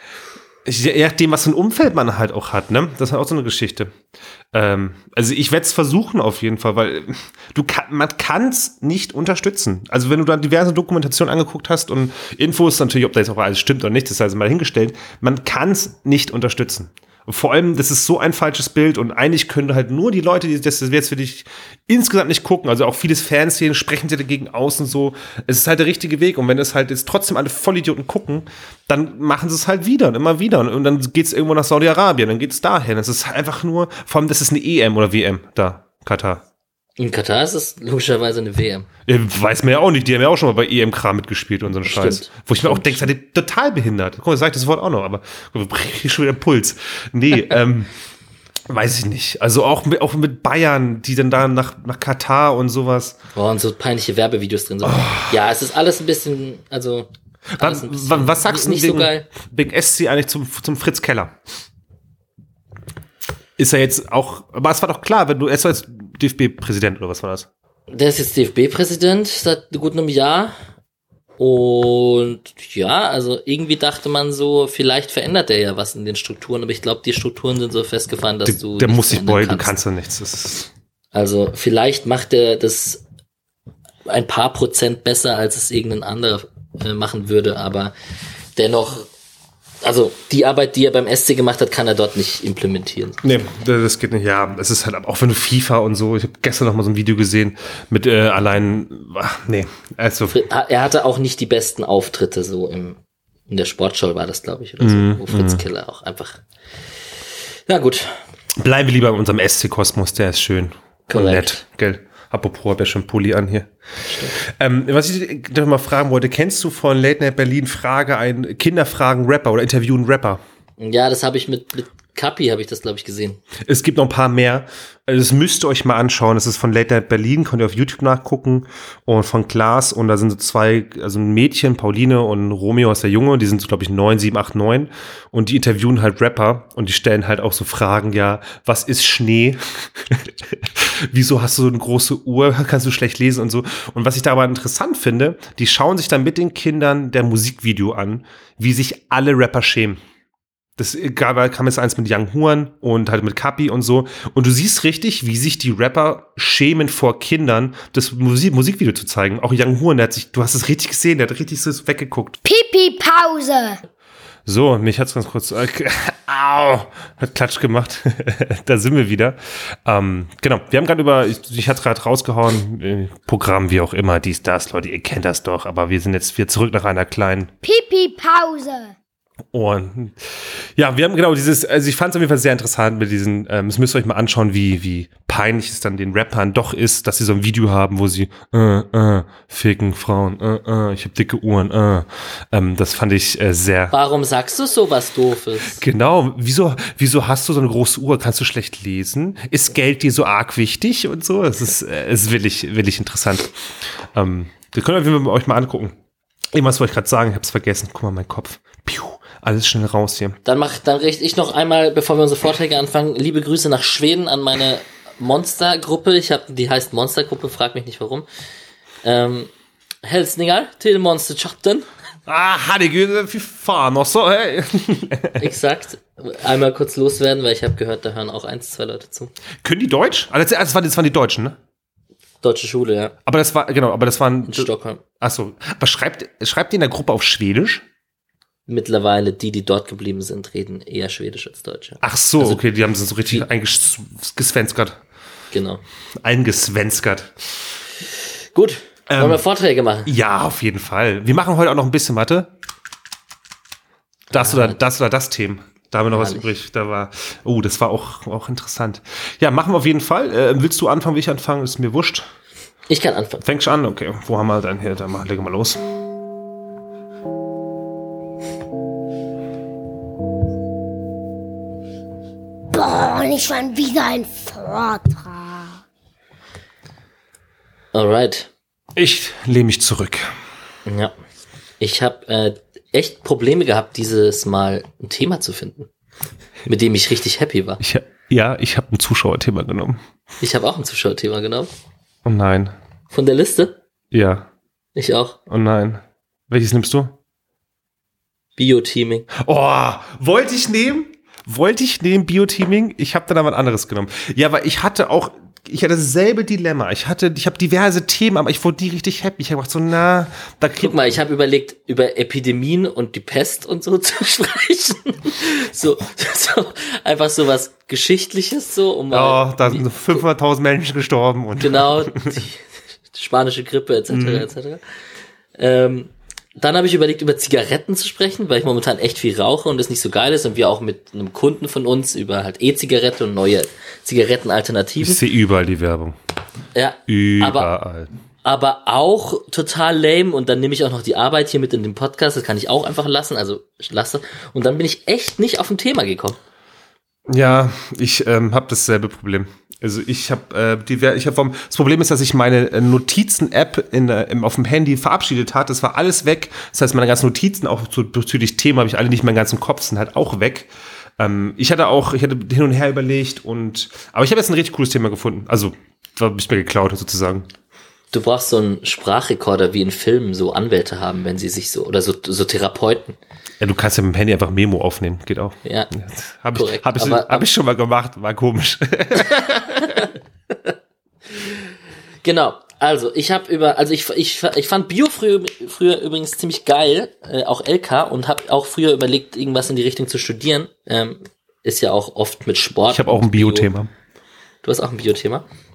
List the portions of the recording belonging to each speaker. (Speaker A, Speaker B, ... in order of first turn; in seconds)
Speaker A: 0.7-3.9, 4.5-36.4, 39.1-47.9, 48.7-53.2, 54.9-55.3, 57.5-61.4, 63.6-67.5, 78.5-80.7, 93.2-100.4, 104.8-105.6, 108.6-113.7, 114.3-120.4, 123.6-150.0, 150.8-162.4, 164.5-177.5, 179.5-193.9, 195.8-203.5, 204.1-205.9, 206.5-210.4, 222.3-225.5, 229.6-231.6, 233.3-237.8, 242.0-245.0, 246.2-247.5, 249.1-249.4, 250.1-252.5, 254.3-262.3, 263.4-265.8, 279.0-280.4, 287.8-290.0, 292.2-292.7, 294.1-294.5, 295.5-297.1, 299.4-310.9, 319.1-322.4, 324.1-324.5, 335.0-336.2, 337.1-338.1, 347.3-367.5, 373.6-380.1, 392.9-393.9
Speaker B: 37.0-38.9, 41.9-43.1, 53.4-59.3, 67.9-70.6, 71.4-79.7, 81.1-83.0, 84.1-87.9, 88.6-89.1, 89.8-93.2, 100.3-103.0, 103.5-106.4, 107.7-108.2, 111.1-111.6, 114.1-114.4, 120.8-123.4, 193.9-195.8, 210.4-218.3, 219.0-219.5, 220.0-221.9, 225.4-229.3, 232.4-233.1, 234.4-235.0, 238.7-242.6, 245.5-245.8, 248.6-250.1, 254.3-254.8, 256.1-256.4, 262.9-263.4, 277.9-278.5, 280.9-281.1, 281.8-285.9, 286.7-287.8, 290.4-291.7, 293.1-293.8, 295.0-295.4, 298.6-299.3, 310.8-319.9, 321.6-322.6, 323.1-324.8, 325.6-335.2, 336.8-337.7, 338.4-346.4, 368.1-373.2, 375.6-375.9, 376.6-377.5, 382.2-393.7, 394.6-395.4
Speaker C: 162.4-163.8, 177.6-178.9, 272.7-275.7